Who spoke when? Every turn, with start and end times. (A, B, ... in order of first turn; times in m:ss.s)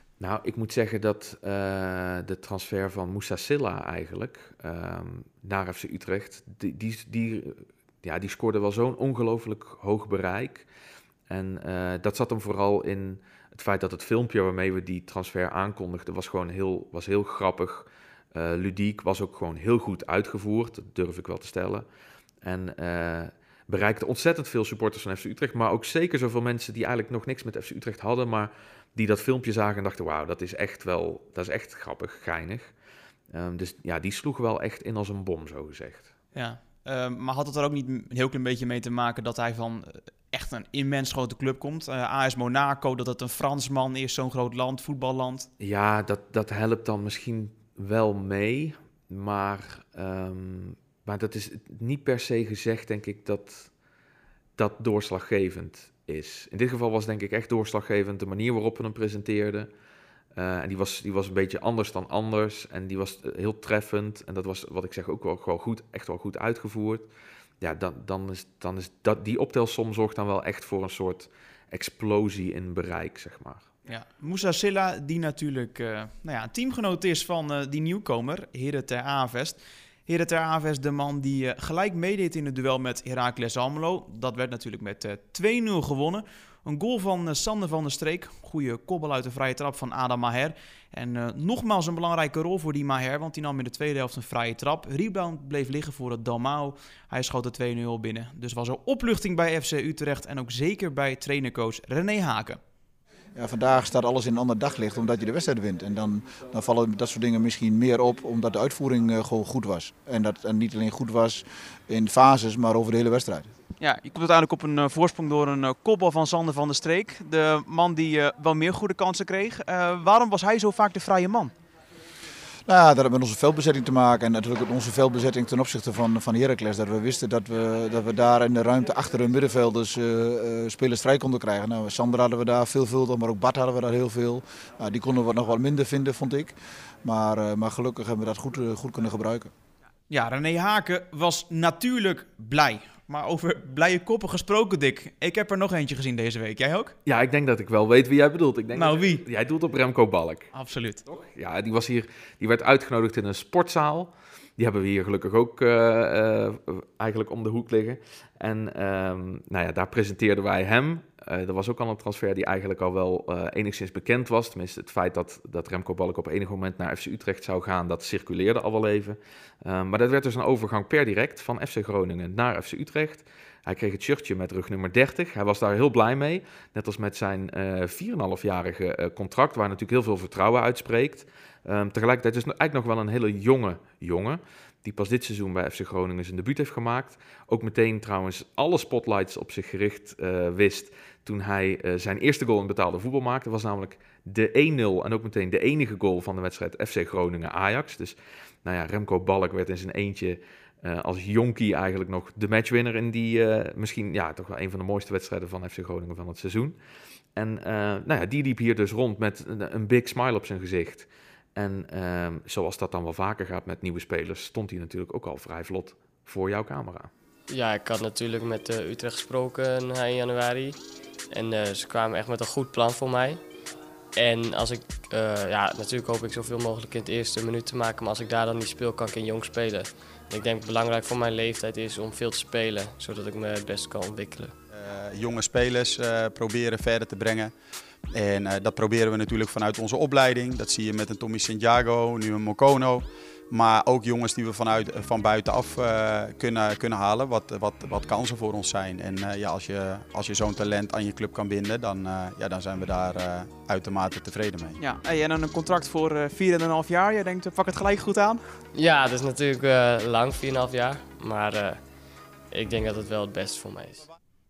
0:00.2-0:10.7 A
0:11.3-0:21.9 A
0:22.4-0:32.7 A
0:33.3-0:36.1 A
0:36.3-0:45.5 B
0:45.6-0:53.7 A
0:54.6-0:59.7 A
1:00.4-1:07.1 A
1:07.6-1:13.7 A
1:13.9-1:42.6 B
1:43.4-1:53.5 C
1:53.8-2:01.5 B
2:02.7-2:19.5 C
2:20.1-2:27.0 B
2:27.1-2:30.5 A
2:28.8-2:29.2 B
2:30.5-2:31.0 B
2:31.1-3:26.8 A
3:27.4-3:37.1 A
3:37.5-3:40.8 D
3:41.3-3:43.4 D
3:44.2-3:54.6 D
3:54.7-3:57.5 E
3:58.1-4:14.8 E
4:14.8-4:18.6 B
4:18.8-4:21.8 D
4:22.5-4:24.1 D